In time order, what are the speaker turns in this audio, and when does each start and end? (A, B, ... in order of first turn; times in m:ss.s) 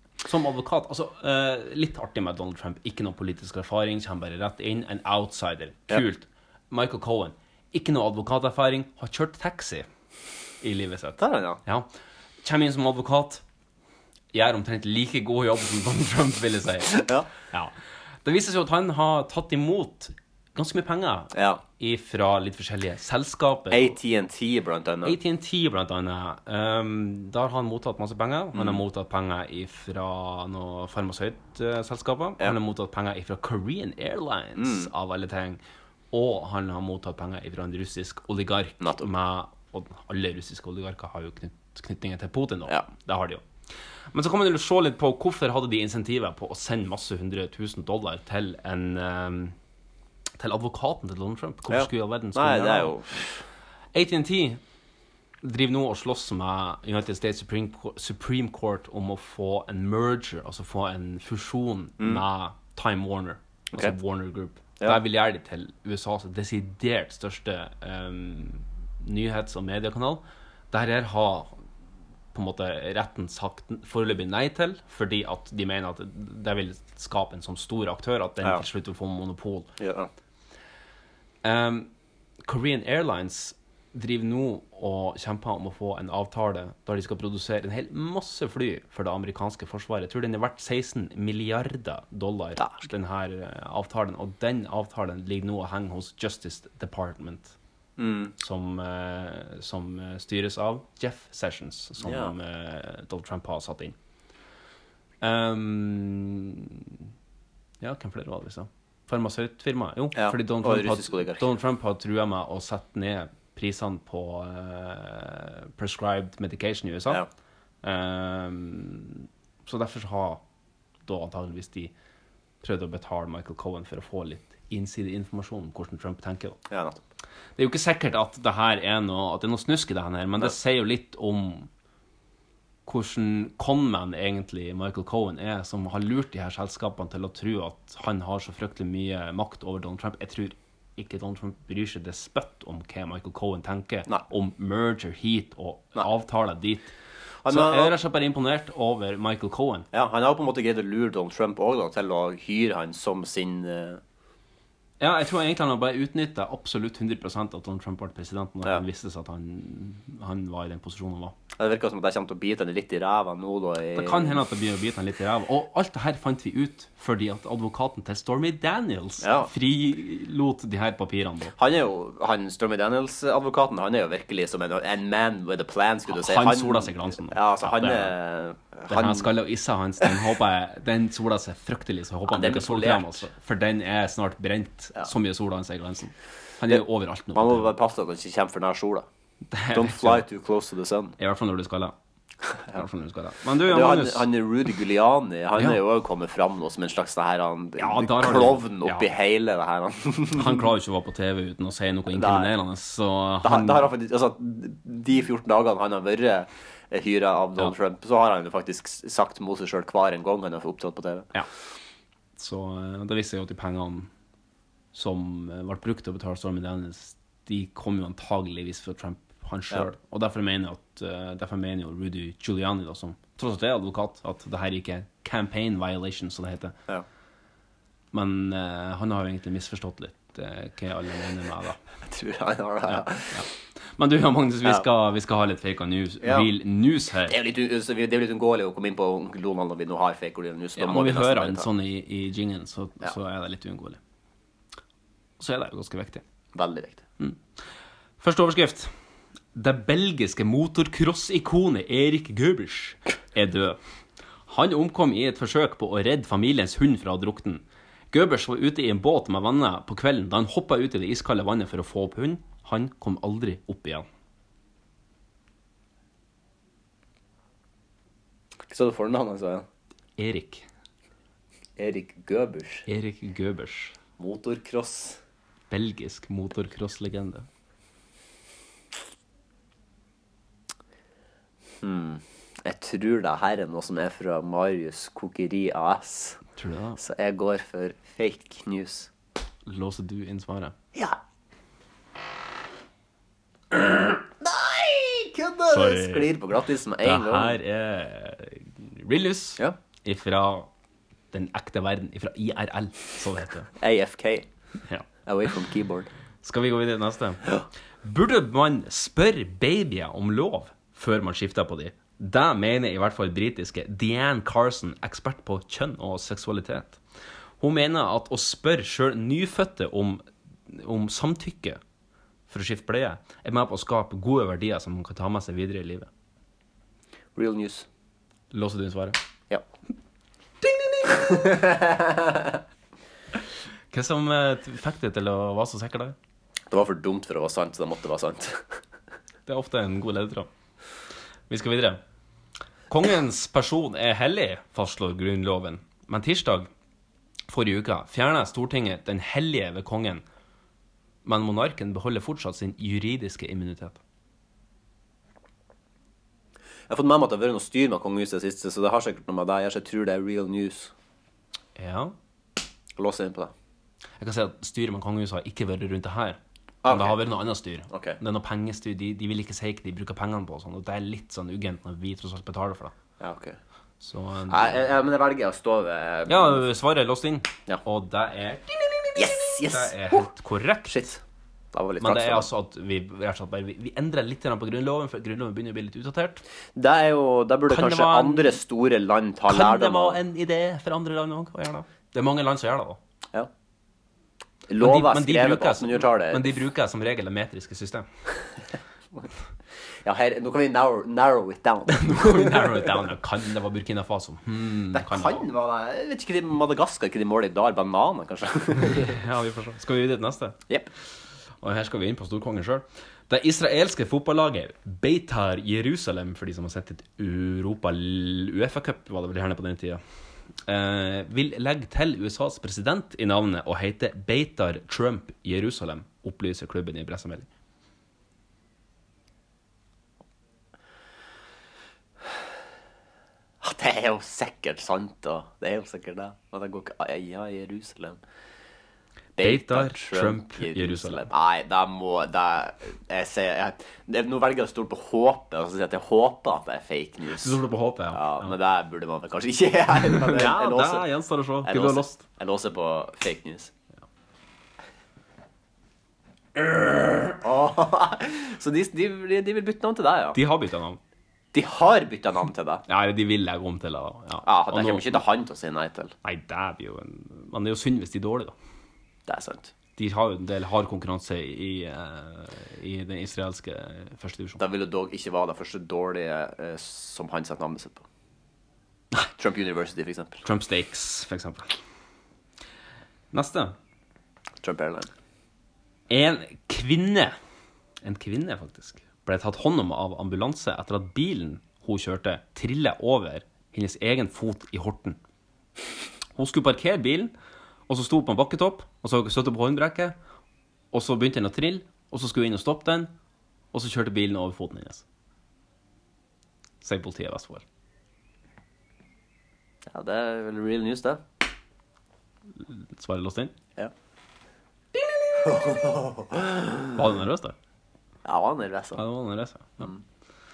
0:00.2-0:09.9 A
0:10.6-0:11.9 A
0:11.2-0:11.6 B
0:12.4-0:13.4 A
0:14.3-0:17.7 A
0:16.9-0:17.3 B
0:18.2-0:24.0 A
0:21.3-0:21.6 B
0:23.7-0:25.2 B
0:25.0-0:43.4 A
0:28.5-0:28.8 B
0:34.6-0:34.9 B
0:38.8-0:39.1 B
0:44.1-0:49.6 A
0:50.4-0:52.9 A
0:51.7-0:53.4 B
0:53.9-0:54.6 A
0:55.4-1:11.5 A
1:12.3-1:19.7 A
1:19.8-1:20.1 B
1:21.4-1:21.9 A
1:22.4-1:37.5 A
1:38.0-1:38.3 B
1:38.4-1:44.0 A
1:42.0-1:42.3 B
1:45.2-1:47.0 A
1:47.8-1:57.2 A
1:50.1-1:51.5 B
1:57.8-2:00.4 A
2:01.0-2:01.9 A
2:02.6-2:06.6 A
2:06.7-2:07.0 B
2:07.6-2:11.7 A
2:12.8-2:26.9 A
2:27.4-2:28.0 B
2:27.5-2:29.9 A
2:29.9-2:34.0 B
2:35.0-2:41.3 A
2:41.6-2:44.4 B
2:43.9-2:51.5 A
2:49.2-2:49.5 B
2:51.6-2:59.3 B
2:56.1-2:58.1 A
2:58.9-3:07.7 A
3:02.3-3:03.3 B
3:06.7-3:09.0 B
3:09.5-3:10.2 A
3:09.7-3:11.2 B
3:11.2-3:12.0 A
3:12.5-3:12.8 B
3:12.7-3:14.3 A
3:13.6-3:20.6 B
3:17.8-3:19.1 A
3:20.3-3:23.9 A
3:22.1-3:22.5 B
3:23.4-3:31.3 B
3:32.4-3:34.1 A
3:34.9-3:46.8 A
3:48.1-3:51.8 A
3:52.1-3:53.4 B
3:52.9-3:57.4 A
3:56.2-3:56.5 B
3:57.3-4:01.7 B
4:00.8-4:04.0 A
4:05.4-4:06.2 A
4:06.5-4:07.0 B
4:08.2-4:08.9 A
4:09.5-4:13.8 A
4:14.5-4:24.1 A
4:28.7-4:29.7 B
4:30.2-4:30.6 A
4:31.8-4:32.9 B
4:32.9-4:34.0 A
4:34.2-4:35.2 B
4:35.7-4:37.5 A
4:41.8-4:46.4 B
4:46.6-4:47.0 A
4:47.0-4:49.1 B
4:49.6-4:50.7 A
4:53.7-4:57.6 B
4:55.7-4:56.4 A
4:57.0-5:00.7 A
5:01.3-5:03.7 A
5:03.8-5:04.5 B
5:05.2-5:06.1 B
5:06.4-5:07.5 A
5:08.0-5:17.0 A
5:17.6-5:21.8 A
5:22.5-5:26.1 A
5:27.4-5:27.9 B
5:28.5-5:29.2 A
5:31.1-5:32.5 B
5:33.9-5:36.2 A
5:36.7-5:38.8 B
5:39.4-5:40.5 A
5:41.5-5:42.0 A
5:42.9-5:46.7 A
5:47.5-5:50.2 A
5:51.2-5:54.0 A
5:56.9-6:00.9 B
6:01.8-6:02.1 A
6:03.0-6:03.5 B
6:04.2-6:12.9 A
6:06.8-6:07.2 B
6:07.9-6:08.2 B
6:13.2-6:13.6 B
6:14.0-6:14.8 A
6:14.5-6:16.6 B
6:16.3-6:21.0 A
6:19.2-6:20.3 B
6:20.9-6:21.2 B
6:21.7-6:22.5 B
6:22.0-6:26.4 A
6:26.8-6:30.2 B
6:27.7-6:28.6 A
6:29.5-6:33.0 A
6:34.7-6:36.5 B
6:34.8-6:38.1 A
6:40.0-6:42.8 B
6:41.9-6:45.4 A
6:44.9-6:49.1 B
6:48.8-6:50.6 A
6:51.6-7:00.0 A
7:00.6-7:07.5 A
7:13.6-7:18.2 B
7:19.4-7:27.6 B
7:19.4-7:21.3 A
7:27.4-7:28.5 A
7:28.1-7:31.0 B
7:30.0-7:32.2 A
7:31.6-7:33.7 B
7:37.3-7:40.4 B
7:40.3-7:41.0 A
7:41.5-7:42.8 B
7:42.9-7:45.2 A
7:44.4-7:46.1 B
7:46.2-7:48.5 A
7:49.3-7:49.7 B
7:50.0-7:54.6 A
7:54.6-7:58.0 B
7:59.4-8:00.4 B
8:00.4-8:01.8 A
8:03.3-8:03.8 A
8:04.6-8:05.1 B
8:06.1-8:07.3 A
8:08.0-8:15.2 A
8:16.3-8:17.3 A
8:17.9-8:20.2 A
8:20.9-8:23.1 A
8:23.7-8:25.0 A
8:26.8-8:27.6 A
8:29.9-8:31.2 B
8:32.6-8:33.5 A
8:35.3-8:37.0 B
8:36.9-8:37.6 A
8:38.2-8:39.0 B
8:39.0-8:39.9 A